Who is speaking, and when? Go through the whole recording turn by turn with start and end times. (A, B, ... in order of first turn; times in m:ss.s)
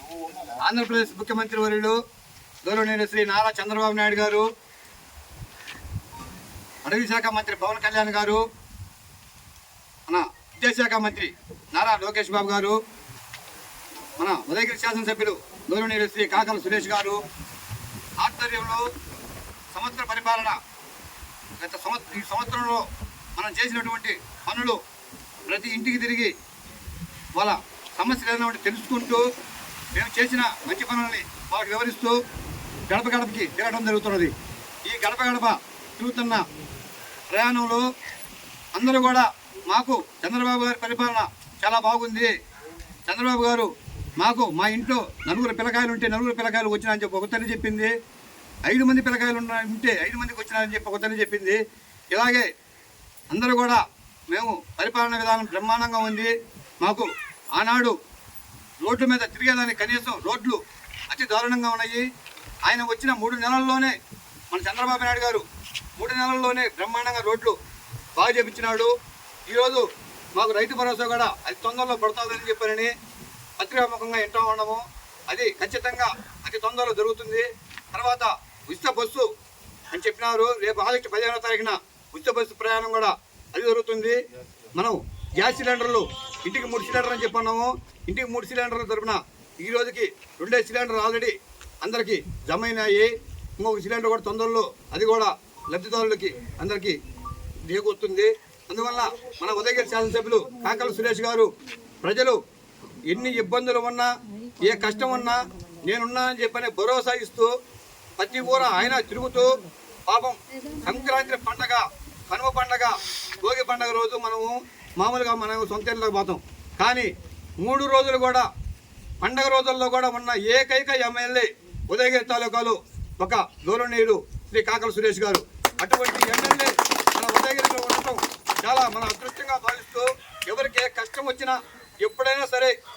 0:00.5-0:02.0 A
0:02.6-0:04.5 A
0:06.8-0:08.4 A
0:10.1-0:12.8 A
0:14.2-0:17.2 A
0:18.2-0:18.9 A
0:19.7-0:20.6 A
0:21.6-0:24.8 A
0:25.5-0:26.3 A
0:27.4-0:29.2 A
0:29.9-0:32.2 A
0:32.9-0:34.3 A
0:34.8-0:36.4 A
0:37.3-0:37.9 A
0:38.7-0:42.3 A
0:43.0-0:47.9 A
0:48.7-0:51.6 A
0:52.1-0:52.5 A
0:53.3-0:58.0 A
0:58.8-1:02.1 A
1:02.6-1:03.9 A
1:04.5-1:05.4 A
1:06.0-1:07.6 A
1:08.2-1:08.9 A
1:09.5-1:12.9 A
1:13.6-1:19.3 A
1:19.9-1:24.2 A
1:24.8-1:37.0 A
1:37.7-1:41.5 A
1:42.0-1:42.4 A
1:43.1-1:47.5 A
1:48.2-1:57.1 A
1:57.6-1:58.5 A
1:59.2-2:12.7 A